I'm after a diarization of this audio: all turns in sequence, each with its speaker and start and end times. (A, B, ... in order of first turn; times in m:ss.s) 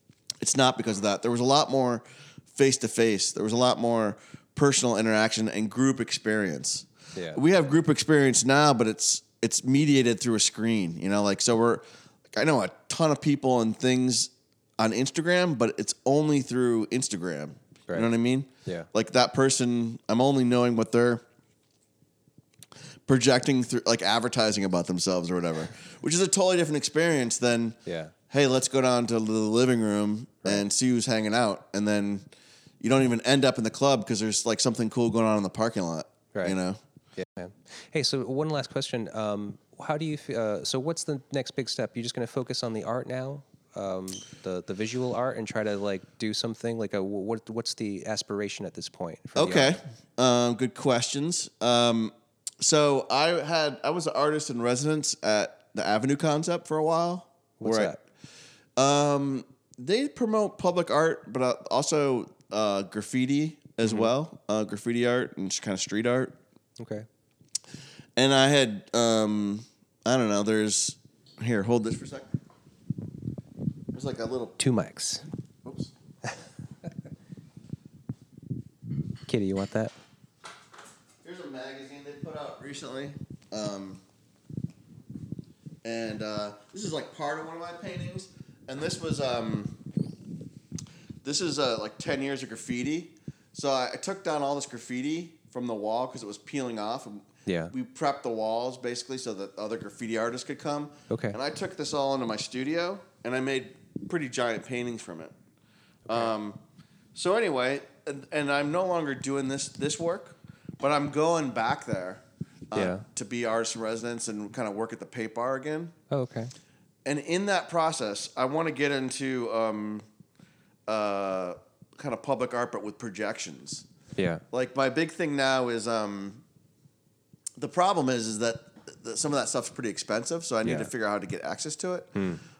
0:00.4-0:21.2 A
0:07.1-0:07.4 B
0:23.1-0:27.8 A
0:27.8-0:28.1 B
0:28.3-0:32.3 A
0:32.8-0:36.8 A
0:37.2-0:49.8 B
0:49.4-0:57.9 A
0:57.6-0:58.0 B
0:58.8-1:06.4 A
1:03.8-1:04.1 B
1:06.8-1:07.0 B
1:08.2-1:12.3 A
1:13.9-1:14.6 A
1:14.6-1:15.2 B
1:15.6-1:15.9 A
1:19.3-1:19.9 B
1:21.2-1:24.0 A
1:25.8-1:29.8 A
1:31.2-1:45.3 A
1:37.4-1:37.7 B
1:41.1-1:41.4 B
1:46.1-1:46.6 A
1:47.1-1:55.9 A
1:52.7-1:53.0 B
1:56.1-1:56.5 B
1:57.0-2:00.0 A
2:00.9-2:03.8 A
2:04.2-2:04.4 B
2:04.5-2:06.4 A
2:07.6-2:12.1 A
2:10.6-2:10.9 B
2:12.2-2:12.4 B